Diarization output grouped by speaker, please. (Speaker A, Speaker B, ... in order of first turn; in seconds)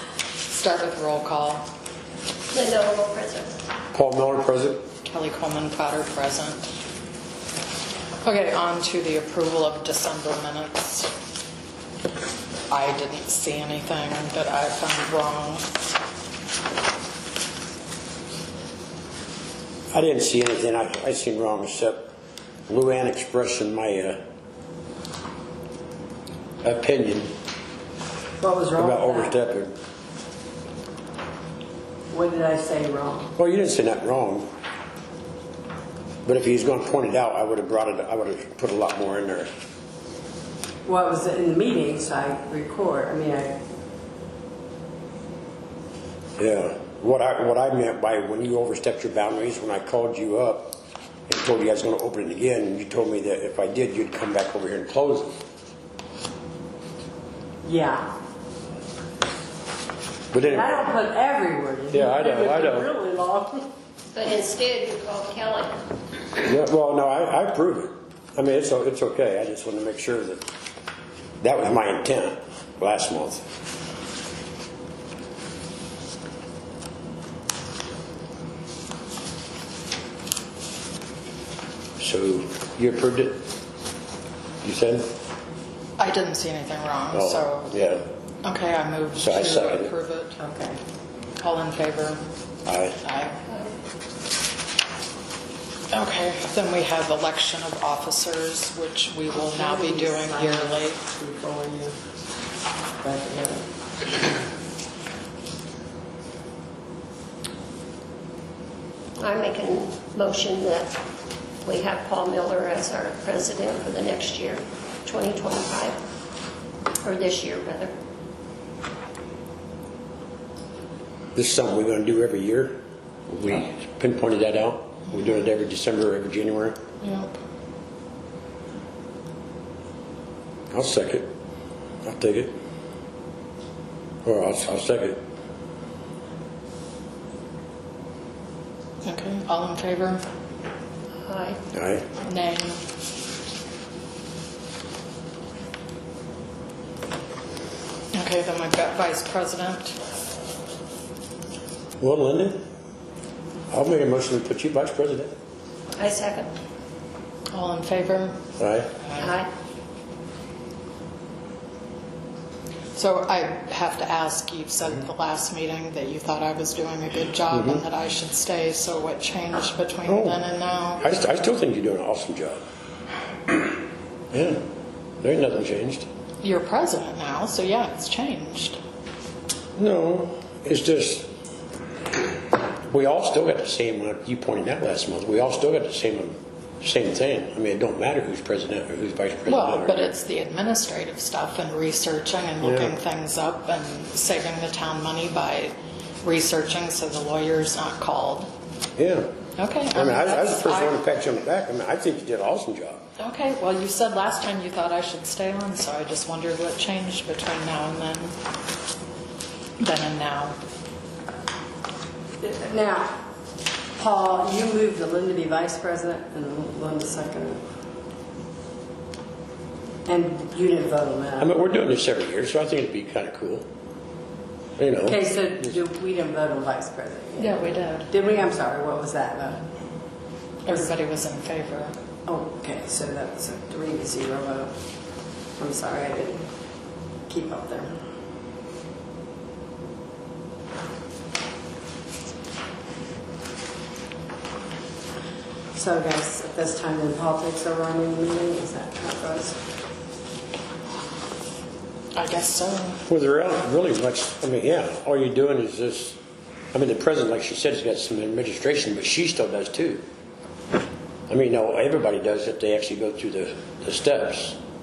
Speaker A: 0.5-1.6, 5.0-6.6, 8.2-11.1, 12.7-15.6, 86.0-87.7, 88.4-90.4, 91.4-92.2, 93.0-93.4, 95.9-101.0, 127.0-127.3, 139.0-140.2, 142.2-142.8, 148.1-149.9, 157.5-158.4, 159.0-159.3, 162.9-171.0, 176.4-178.8, 189.5-198.5, 199.6-201.0, 203.2-208.3, 209.8-210.6, 227.4-228.1, 230.7-231.9, 252.1-253.0
Speaker B: 2.5-3.5, 64.1-65.7, 109.2-111.0, 111.6-116.0, 117.0-117.9, 141.2-141.6, 156.0-156.5, 159.2-159.5
Speaker C: 3.9-4.8, 19.9-22.1, 22.7-24.2, 26.6-27.3, 28.8-29.7, 33.4-34.5, 36.2-39.5, 46.4-55.3, 60.3-60.9, 61.9-62.9, 66.3-70.4, 71.4-73.4, 82.0-83.4, 84.6-85.1, 87.1-88.0, 89.2-89.9, 92.7-93.0, 121.3-126.8, 130.7-131.3, 132.0-132.6, 134.2-135.2, 141.7-142.1, 152.0-152.6, 153.7-155.3, 158.6-158.9, 167.5-167.8, 170.1-170.4, 171.0-172.6, 174.3-174.6, 175.2-176.1, 179.8-181.3, 182.9-190.0, 192.6-192.9, 199.0-199.3, 199.9-203.0, 221.4-223.6, 224.8-225.2, 253.1-256.2, 256.7-260.0, 261.3-264.6
Speaker D: 28.4-29.3, 32.1-33.3, 40.9-43.6, 57.6-58.1, 60.4-63.7, 90.4-90.8, 99.3-102.0, 103.0-103.7, 212.4-213.1, 214.0-217.6, 220.1-221.5, 225.0-229.6, 232.2-234.7, 235.6-236.5, 237.3-237.9, 245.7-249.6